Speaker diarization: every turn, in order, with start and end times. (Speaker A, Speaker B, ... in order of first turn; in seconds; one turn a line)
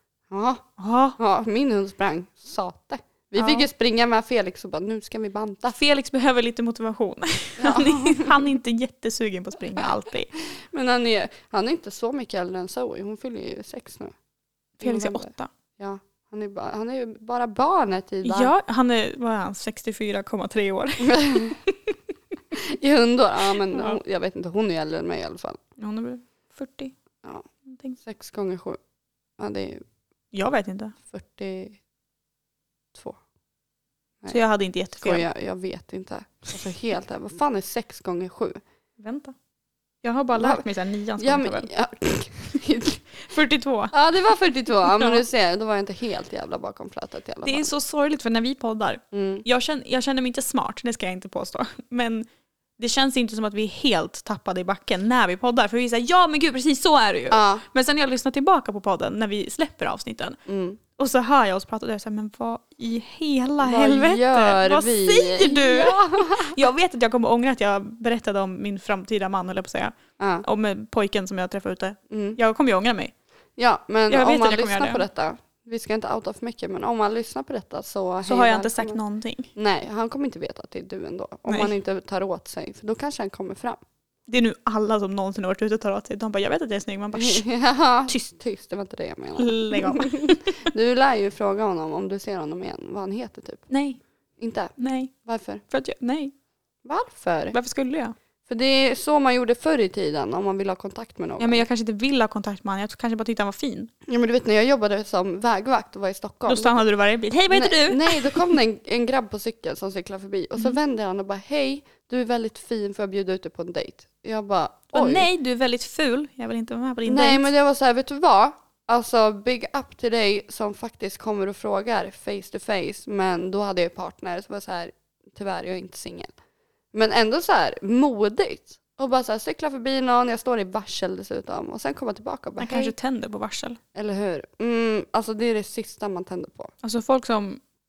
Speaker A: 0.3-0.6
Speaker B: 0.8-1.2
Speaker A: 1.2-5.8
Speaker B: 3.4-3.7
Speaker B: 5.7-10.3
Speaker A: 7.6-8.4
Speaker A: 9.8-14.1
Speaker B: 14.8-15.5
Speaker A: 14.8-18.5
Speaker B: 18.2-21.9
Speaker A: 21.0-21.6
Speaker A: 22.6-25.6
Speaker B: 23.7-24.0
Speaker B: 25.8-26.9
Speaker B: 27.7-28.0
Speaker A: 28.0-28.8
Speaker A: 29.4-29.8
Speaker B: 30.3-30.9
Speaker A: 31.1-31.8
Speaker B: 34.3-35.2
Speaker A: 35.0-38.6
Speaker B: 39.0-39.3
Speaker B: 40.0-41.7
Speaker A: 40.3-40.6
Speaker A: 41.2-43.0
Speaker B: 43.2-43.9
Speaker A: 43.9-47.7
Speaker B: 44.9-45.2
Speaker B: 47.4-52.3
Speaker A: 49.1-49.4
Speaker B: 52.8-60.4
Speaker A: 57.3-57.6
Speaker A: 60.5-60.8
Speaker B: 61.0-73.1
Speaker A: 63.6-66.6
Speaker A: 70.2-70.4
Speaker A: 72.1-72.4
Speaker A: 73.6-79.0
Speaker B: 74.1-75.0
Speaker B: 78.2-79.5
Speaker A: 79.5-83.8
Speaker B: 81.5-81.7
Speaker B: 84.3-87.4
Speaker A: 87.1-93.7
Speaker B: 89.4-90.4
Speaker B: 93.7-94.0
Speaker A: 94.4-95.6
Speaker B: 94.8-95.1
Speaker B: 95.7-96.3
Speaker A: 96.8-97.5
Speaker B: 97.5-98.1
Speaker A: 98.5-101.6
Speaker B: 101.4-103.9
Speaker A: 104.1-106.8
Speaker B: 106.5-108.5
Speaker A: 107.5-115.3
Speaker B: 114.9-117.5
Speaker A: 117.0-126.3
Speaker A: 126.9-132.9
Speaker B: 132.6-133.8
Speaker A: 133.9-136.7
Speaker B: 136.8-137.6